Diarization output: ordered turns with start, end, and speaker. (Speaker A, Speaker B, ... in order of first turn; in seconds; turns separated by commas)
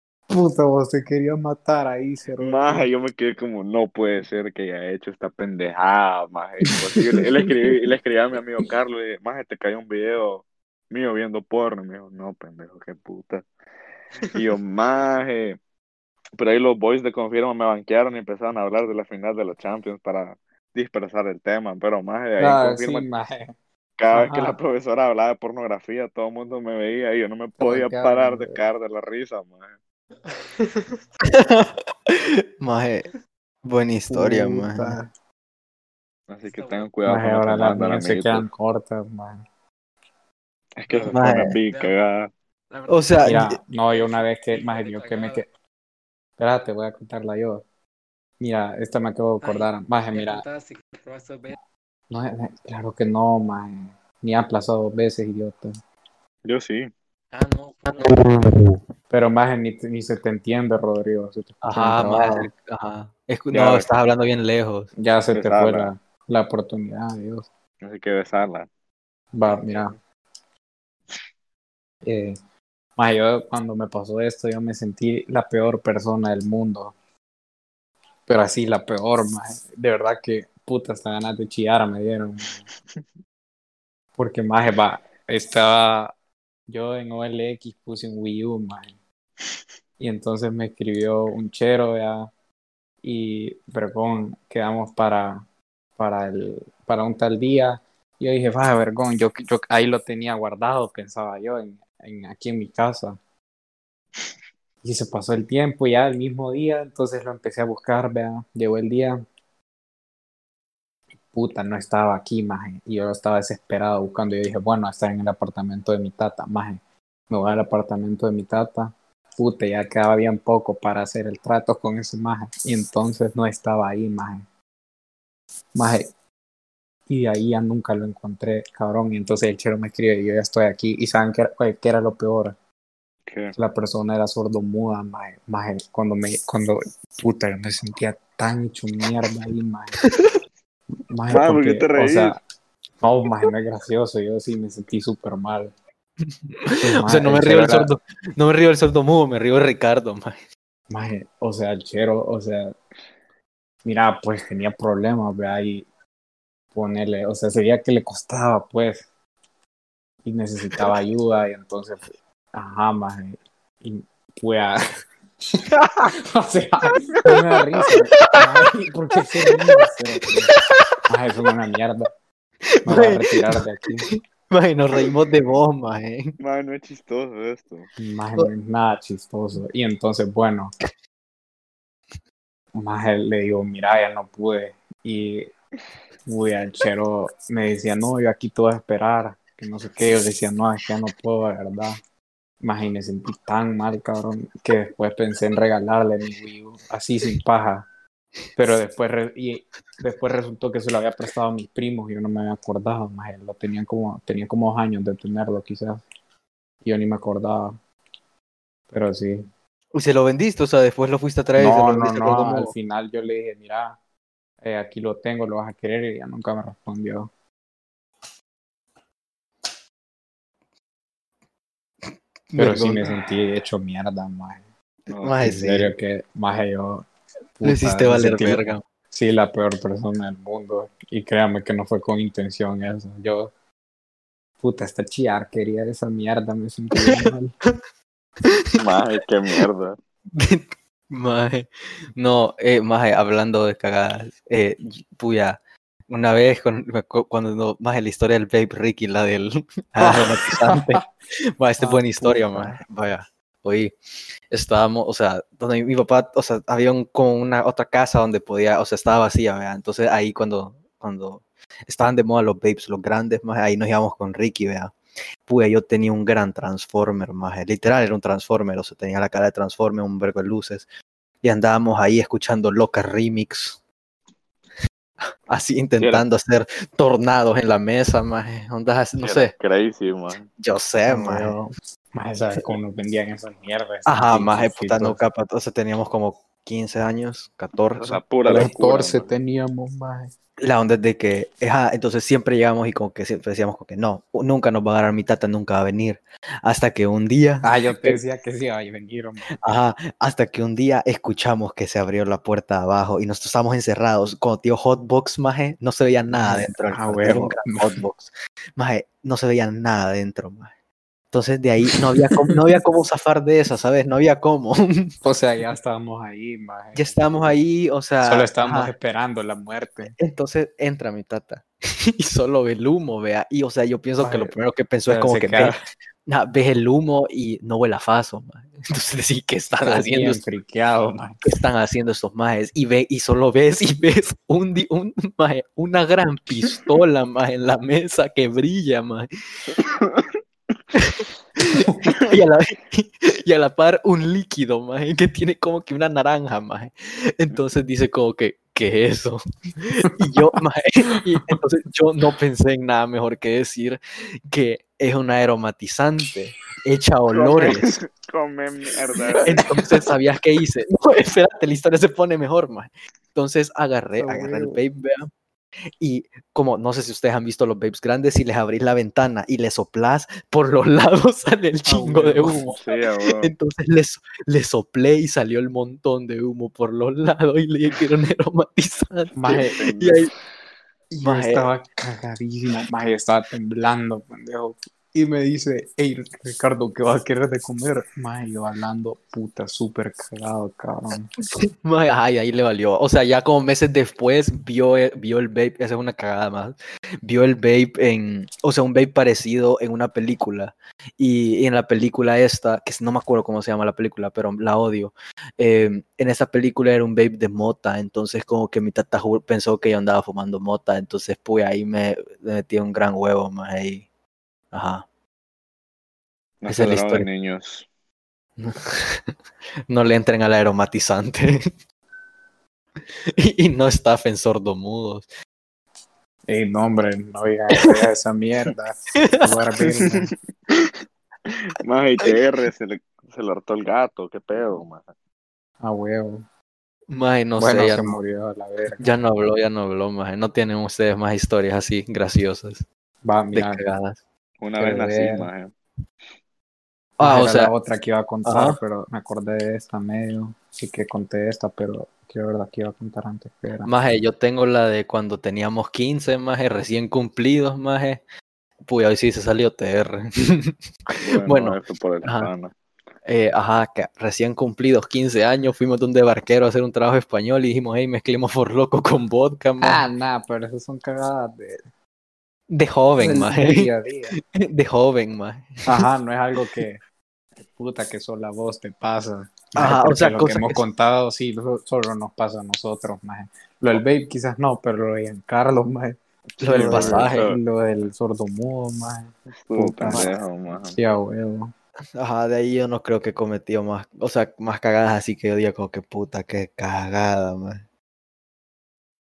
Speaker A: 0.3-2.9, Speaker B: 2.4-13.4, Speaker A: 6.7-7.4, Speaker B: 14.3-15.6, Speaker B: 16.4-23.1, Speaker A: 22.4-23.5, Speaker B: 24.0-29.8, Speaker A: 24.1-24.6, Speaker A: 27.6-28.6, Speaker C: 30.3-31.0, Speaker D: 31.2-33.1, Speaker D: 33.6-35.0, Speaker A: 34.1-35.1, Speaker B: 36.3-38.5, Speaker C: 36.5-36.9, Speaker A: 37.0-39.4, Speaker B: 40.8-42.3, Speaker C: 40.9-41.9, Speaker D: 41.1-41.6, Speaker C: 42.7-43.4, Speaker D: 42.9-43.6, Speaker A: 43.2-45.5, Speaker C: 43.9-45.4, Speaker A: 46.4-47.6, Speaker A: 48.4-50.4, Speaker C: 49.4-51.6, Speaker A: 52.1-55.8, Speaker B: 56.4-56.9, Speaker C: 57.3-58.3, Speaker D: 58.0-58.8, Speaker A: 59.1-62.5, Speaker D: 61.6-64.9, Speaker B: 63.5-63.9, Speaker A: 65.0-67.5, Speaker B: 65.3-65.9, Speaker B: 67.8-68.7, Speaker A: 69.3-69.9, Speaker B: 69.5-69.9, Speaker A: 72.0-72.4, Speaker A: 73.0-76.9, Speaker A: 78.3-82.6, Speaker A: 84.2-86.1, Speaker A: 86.7-88.9, Speaker A: 90.0-92.3, Speaker A: 93.0-95.4, Speaker A: 96.0-103.2, Speaker A: 104.8-109.2, Speaker A: 111.3-124.4, Speaker A: 125.7-126.1, Speaker A: 127.1-132.6, Speaker B: 133.3-133.6, Speaker A: 133.6-140.1, Speaker D: 140.0-140.3, Speaker A: 141.1-142.4, Speaker B: 141.3-142.3, Speaker A: 143.0-145.7, Speaker D: 146.6-150.4, Speaker A: 146.8-147.9, Speaker A: 150.9-152.8, Speaker A: 153.8-155.9, Speaker A: 156.7-159.1, Speaker A: 160.2-164.8, Speaker D: 165.8-166.1, Speaker A: 166.2-170.5, Speaker D: 167.3-168.4, Speaker D: 169.2-169.8, Speaker D: 170.5-170.8, Speaker A: 171.1-172.1, Speaker D: 172.8-173.6, Speaker A: 172.8-174.1, Speaker D: 174.1-176.4, Speaker B: 176.4-177.9, Speaker A: 178.0-180.7, Speaker A: 182.7-185.5, Speaker A: 186.2-192.0, Speaker A: 192.6-197.9, Speaker A: 198.5-206.0, Speaker A: 206.8-207.8, Speaker A: 208.9-209.5, Speaker D: 209.9-212.7, Speaker A: 211.6-214.0, Speaker A: 214.6-217.3, Speaker D: 222.5-223.1, Speaker A: 222.6-224.7, Speaker B: 225.1-225.4, Speaker D: 225.2-225.9, Speaker A: 225.4-227.1, Speaker A: 227.6-233.5, Speaker D: 227.6-228.8, Speaker A: 234.6-237.5, Speaker D: 237.1-237.8, Speaker D: 238.4-238.8, Speaker B: 238.8-239.9, Speaker D: 240.3-251.0, Speaker A: 250.0-251.0, Speaker D: 251.6-253.9, Speaker A: 251.8-252.8, Speaker D: 254.5-264.9, Speaker D: 265.4-270.9, Speaker D: 271.4-273.8, Speaker D: 275.5-279.5, Speaker B: 279.2-280.5, Speaker D: 280.6-281.5, Speaker A: 281.1-285.2, Speaker D: 284.1-288.2, Speaker B: 288.0-289.3, Speaker A: 288.4-290.3, Speaker D: 290.6-298.2, Speaker A: 297.6-299.6, Speaker D: 299.6-310.7, Speaker A: 306.3-307.9, Speaker D: 311.3-315.1, Speaker A: 315.2-317.5, Speaker D: 316.9-318.9, Speaker A: 318.2-320.1, Speaker D: 320.0-330.4, Speaker A: 324.2-324.5, Speaker A: 325.1-325.8, Speaker A: 329.8-331.4, Speaker D: 331.4-339.7, Speaker B: 339.8-340.3, Speaker D: 340.9-357.9, Speaker B: 357.3-359.7, Speaker D: 359.4-365.3, Speaker A: 364.2-364.8, Speaker D: 366.0-380.3, Speaker A: 371.9-372.8, Speaker B: 372.7-373.5, Speaker A: 379.3-379.8, Speaker B: 379.7-380.4, Speaker D: 381.1-381.7, Speaker A: 381.2-391.3, Speaker D: 391.8-414.0, Speaker D: 414.7-415.0, Speaker B: 416.6-417.9, Speaker D: 416.7-417.3, Speaker D: 418.6-419.3, Speaker D: 419.9-421.7, Speaker D: 423.4-425.3, Speaker A: 426.5-430.3, Speaker D: 429.2-429.5, Speaker B: 431.5-435.1, Speaker A: 435.8-436.4, Speaker D: 437.1-438.2, Speaker A: 437.6-439.1, Speaker D: 439.0-442.9, Speaker A: 443.2-443.9, Speaker D: 443.5-444.2, Speaker B: 444.6-445.7, Speaker A: 444.8-445.5, Speaker A: 447.2-453.9, Speaker D: 447.2-447.7, Speaker D: 448.4-448.8, Speaker D: 453.8-458.2, Speaker D: 458.9-462.5, Speaker B: 461.2-462.7, Speaker D: 463.2-470.1, Speaker A: 469.8-471.8, Speaker D: 472.7-476.1, Speaker A: 473.2-474.4, Speaker A: 475.9-477.0, Speaker A: 477.6-490.3, Speaker D: 479.8-480.8, Speaker B: 486.6-487.6, Speaker D: 486.6-487.4, Speaker B: 489.5-491.0, Speaker A: 490.8-491.7, Speaker D: 492.2-497.8